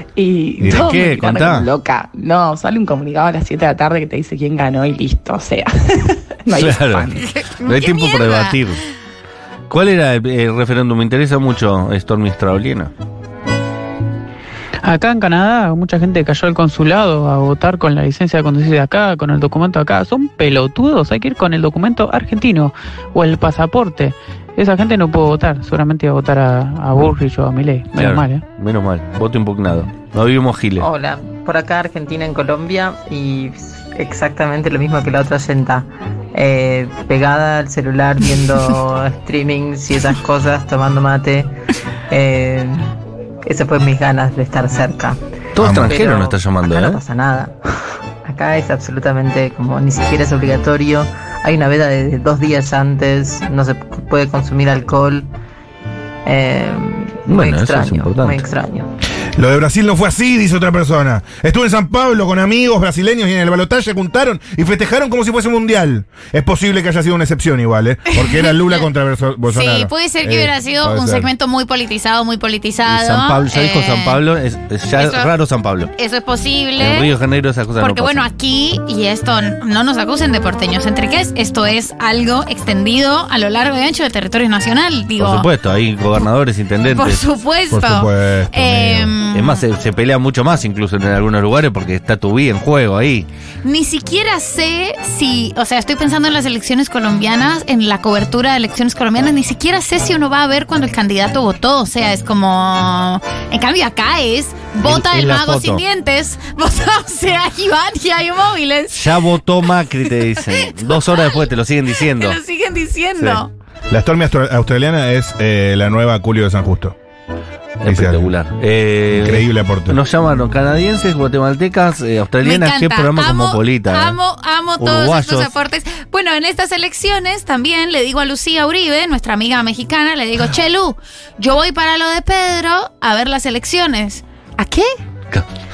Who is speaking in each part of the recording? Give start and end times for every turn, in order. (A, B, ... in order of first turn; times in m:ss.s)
0:00.2-0:07.2 A
0:00.6-0:01.7 B
0:06.6-0:07.1 B
0:07.2-0:08.6 C
0:07.7-0:08.8 B
0:09.7-0:12.9 B
0:14.8-0:28.4 D
0:27.9-0:30.9 B
0:30.8-0:41.5 E
0:42.1-0:42.9 E
0:43.5-0:47.6 E
0:45.5-0:47.0 B
0:45.6-0:45.9 F
0:48.2-0:55.3 E
0:56.2-0:58.9 E
0:57.3-0:58.4 B
0:59.4-1:11.3 F
1:08.1-1:08.9 C
1:09.5-1:14.2 C
1:12.9-1:15.9 B
1:15.0-1:15.3 C
1:16.0-1:17.1 C
1:16.8-1:18.3 B
1:17.8-1:25.5 C
1:25.2-1:27.2 B
1:26.9-1:29.6 C
1:27.7-1:29.2 F
1:29.3-1:33.3 B
1:33.6-1:49.0 C
1:44.8-1:45.8 B
1:48.9-1:52.4 B
1:50.7-1:51.4 C
1:52.2-1:53.5 C
1:53.9-1:57.0 F
1:57.8-2:04.2 B
1:57.9-1:58.3 F
1:59.1-2:00.0 F
2:02.4-2:14.9 C
2:04.8-2:05.5 B